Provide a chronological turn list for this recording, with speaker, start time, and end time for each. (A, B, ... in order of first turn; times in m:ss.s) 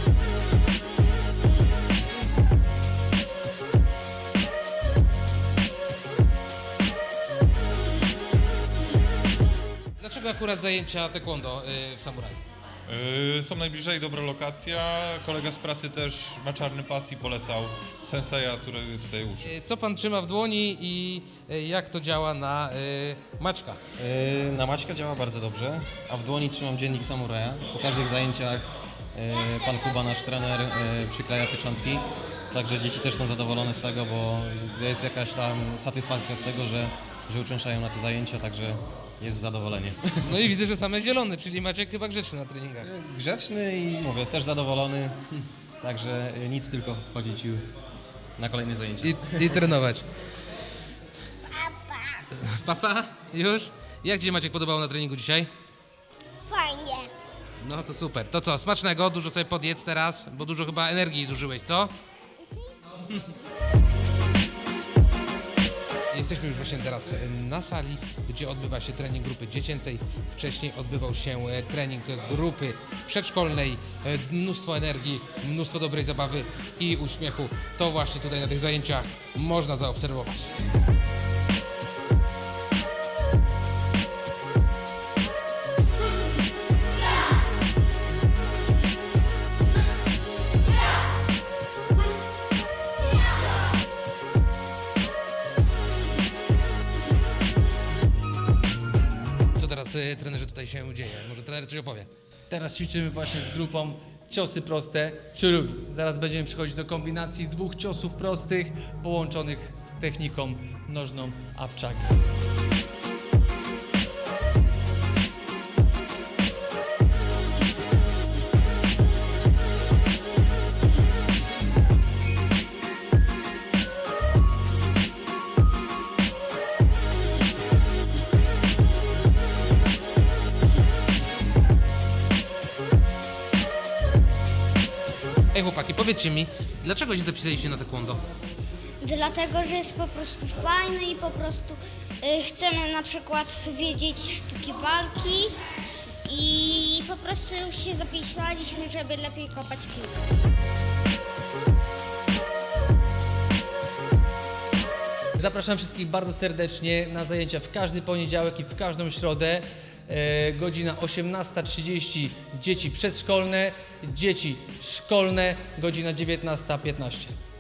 0:10.0-0:12.4 A
0:12.9-0:19.5 B
0:19.4-0:23.8 A
0:24.0-0:40.4 C
0:40.2-0:42.9 A
0:42.8-0:45.2 C
0:45.8-0:47.6 C
0:48.4-0:49.6 C
0:49.0-0:50.0 A
0:51.5-0:52.2 D
0:52.3-0:55.5 A
0:56.5-0:57.1 D
0:57.6-1:01.9 A
1:06.1-1:20.5 A
1:39.5-1:42.1 A
1:42.5-1:52.1 E
2:15.5-2:18.2 A
2:19.0-2:25.6 D
2:26.2-2:30.2 D
2:35.4-2:47.3 E